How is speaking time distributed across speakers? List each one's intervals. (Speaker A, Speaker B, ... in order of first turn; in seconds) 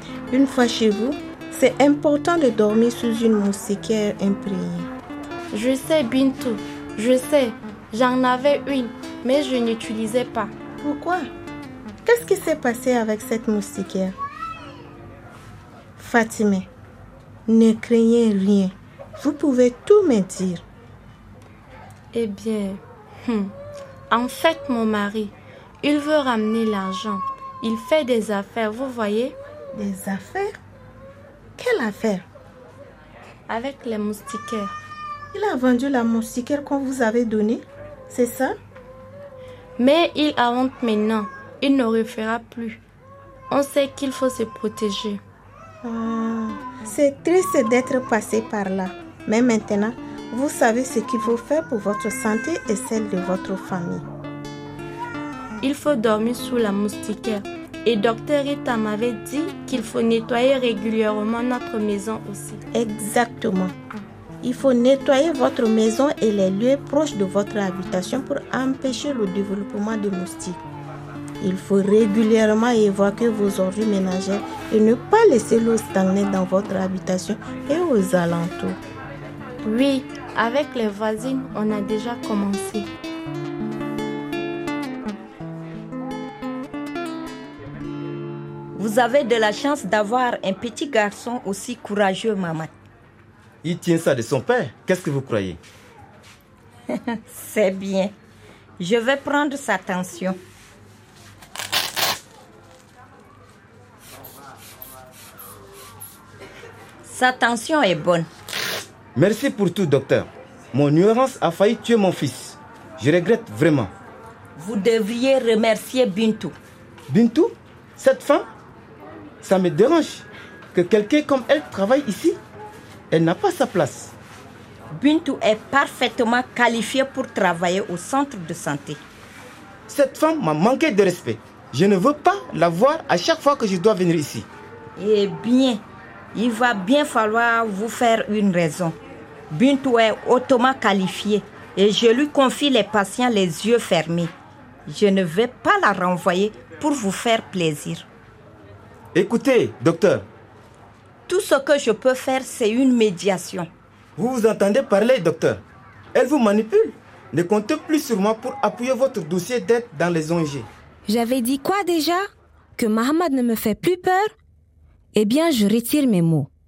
Speaker A: 0.3-4.9, 10.8-11.3, 12.1-14.1, 16.0-16.7, 17.5-20.6, 29.7-30.6, 31.6-32.2, 35.3-38.6, 45.8-54.0, 62.7-63.7, 64.4-70.6, 71.4-78.8
Speaker B: 5.5-10.5, 22.1-23.5, 24.1-29.4, 33.5-34.7, 39.8-42.8, 43.5-45.2, 55.6-62.6, 79.6-82.9
Speaker C: 88.8-92.7, 97.3-98.1, 98.8-100.4, 107.0-108.3, 114.6-116.5, 124.9-129.0, 135.0-135.8, 136.3-139.0, 139.5-144.3, 144.9-148.1, 151.3-153.7
Speaker D: 93.6-95.6, 109.1-113.9, 117.1-118.5, 119.4-122.4, 123.1-124.1, 129.9-134.5, 149.1-150.3, 154.2-155.6, 156.1-160.7
Speaker E: 161.1-164.3, 165.1-166.5